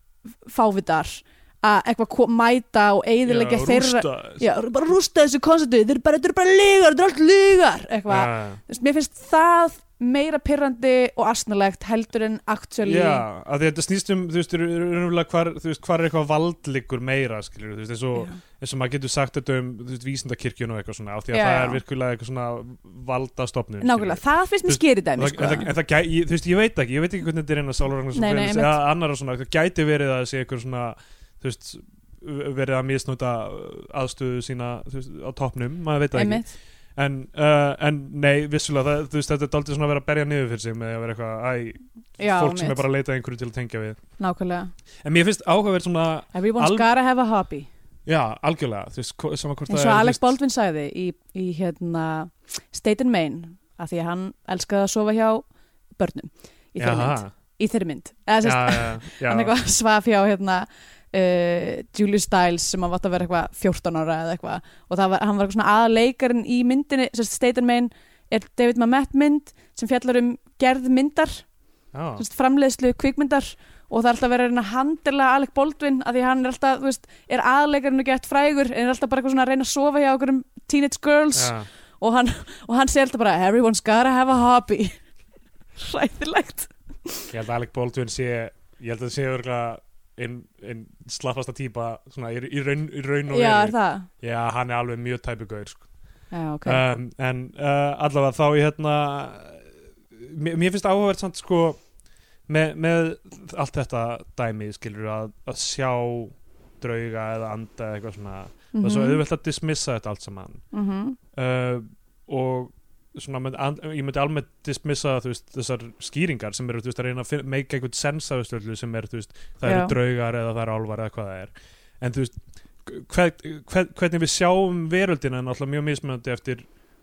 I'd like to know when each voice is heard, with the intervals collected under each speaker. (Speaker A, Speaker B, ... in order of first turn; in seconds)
Speaker A: 0.5-13.2, 21.3-21.8, 23.8-25.7, 28.1-28.8, 36.1-36.5, 42.2-42.8, 44.2-44.7, 46.3-47.7, 49.7-55.5, 56.0-71.5, 72.2-85.0, 85.8-87.3, 93.3-94.1, 96.3-96.8, 108.7-109.2, 110.7-111.2, 119.6-120.0
Speaker B: 3.2-4.4, 8.1-8.6, 12.8-44.0, 45.0-46.9, 48.1-50.4, 56.8-57.3, 58.4-59.5, 71.9-72.2, 81.3-81.7, 87.3-95.8, 96.7-101.8, 102.5-110.6, 111.3-126.7